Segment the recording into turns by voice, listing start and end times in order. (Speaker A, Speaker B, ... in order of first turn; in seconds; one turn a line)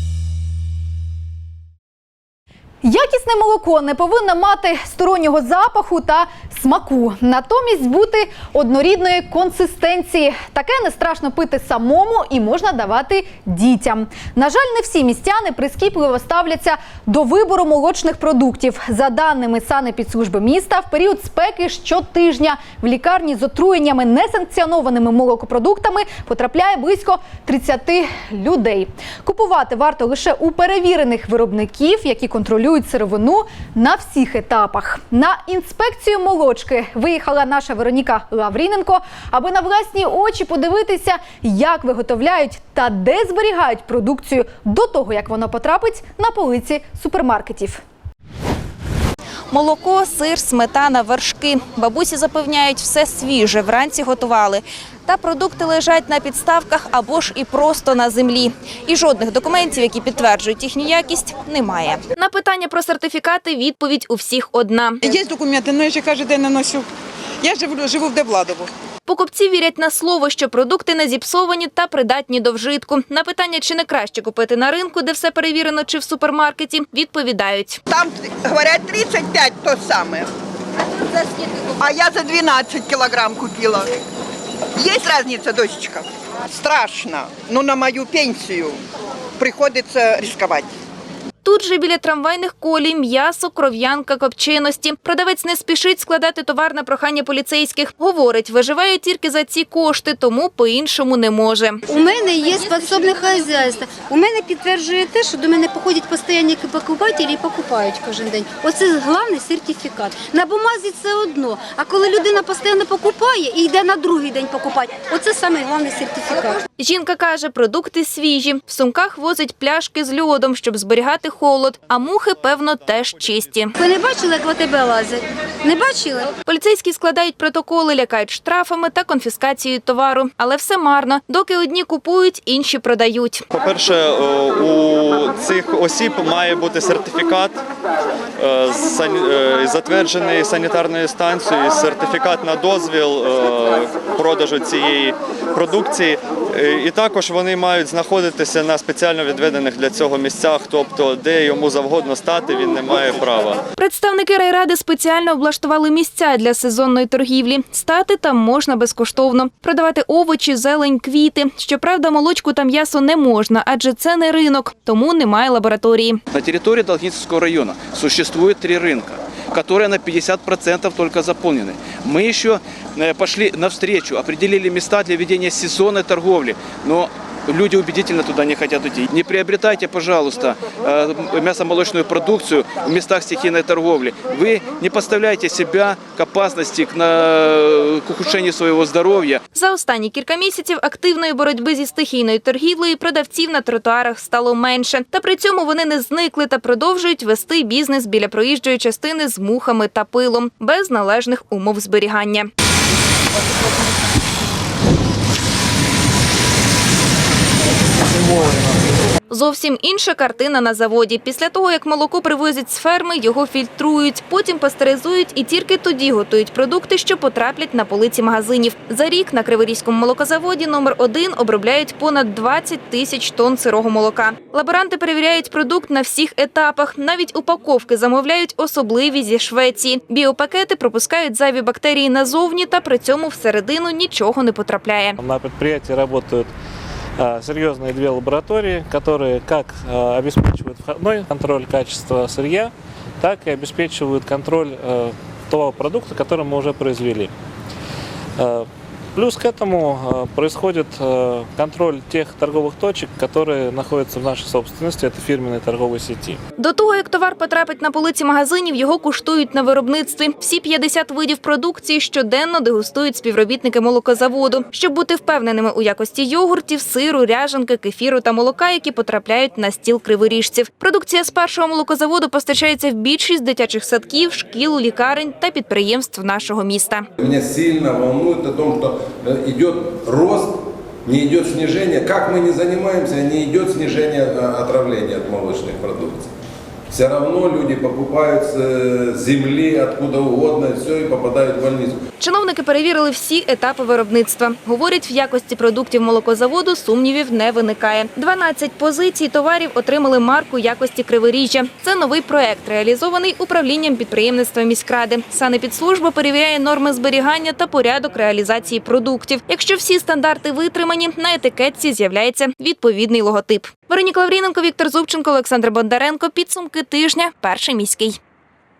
Speaker A: 2.8-47.8
Speaker B: 49.5-65.0
Speaker C: 65.0-66.9
Speaker C: 67.4-68.7
Speaker B: 69.1-77.8
Speaker C: 77.9-80.3
Speaker C: 80.9-83.9
Speaker C: 84.8-88.8
Speaker C: 89.4-90.7
Speaker B: 91.4-101.8
Speaker D: 101.9-116.6
Speaker B: 116.8-123.7
Speaker D: 123.8-126.3
Speaker B: 126.5-133.5
Speaker E: 133.5-137.6
Speaker E: 138.4-153.6
Speaker B: 153.8-166.2
Speaker F: 166.3-189.4
Speaker B: 189.5-202.5
Speaker B: 209.3-235.2
Speaker G: 235.2-236.5
Speaker G: 237.2-247.3
Speaker G: 248.4-256.4
Speaker B: 256.6-277.1
Speaker H: 277.2-280.5
Speaker H: 281.0-286.3
Speaker H: 286.9-292.0
Speaker B: 292.2-318.2